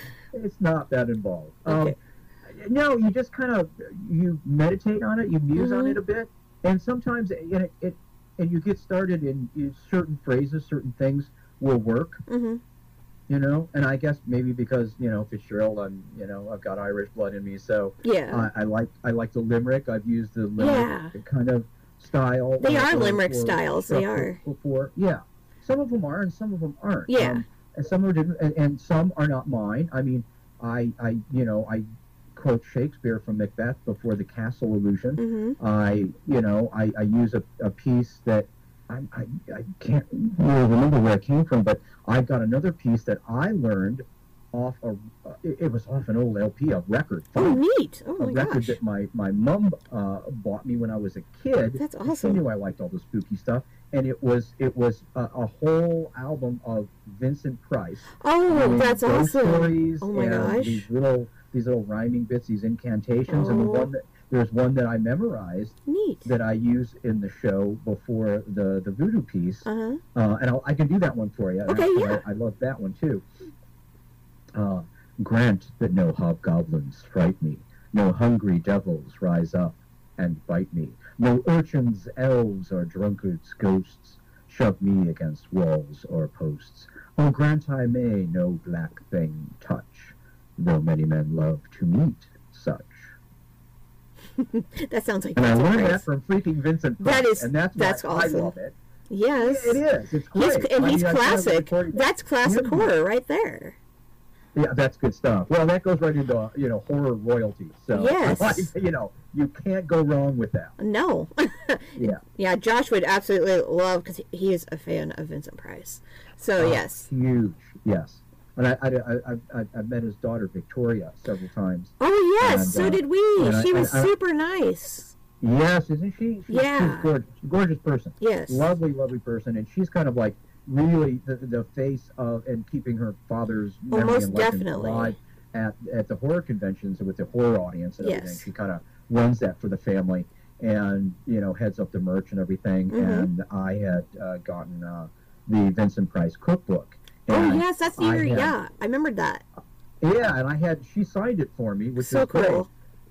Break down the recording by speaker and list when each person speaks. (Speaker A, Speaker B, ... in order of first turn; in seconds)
Speaker A: 0.3-12.2, 13.3-47.6, 48.2-73.2, 74.5-93.1, 95.3-98.8, 99.4-102.9, 104.5-110.7, 111.9-112.2, 116.6-124.1, 125.4-148.6, 150.0-152.7
Speaker B: 1.6-1.9, 5.5-6.0, 12.3-12.6, 18.0-18.5, 20.6-21.1, 22.6-24.4, 27.1-27.4, 35.2-35.6, 47.4-48.8, 51.8-52.4, 58.2-60.9, 63.3-63.9, 65.9-66.3, 69.6-70.0, 71.7-72.2, 94.4-96.0, 97.0-98.5, 99.1-99.8, 100.3-103.8, 107.9-108.7, 110.8-117.1, 122.0-125.1, 126.5-127.1, 128.2-128.7, 133.9-135.2, 138.0-138.5, 142.9-143.3, 147.3-149.4, 152.0-152.7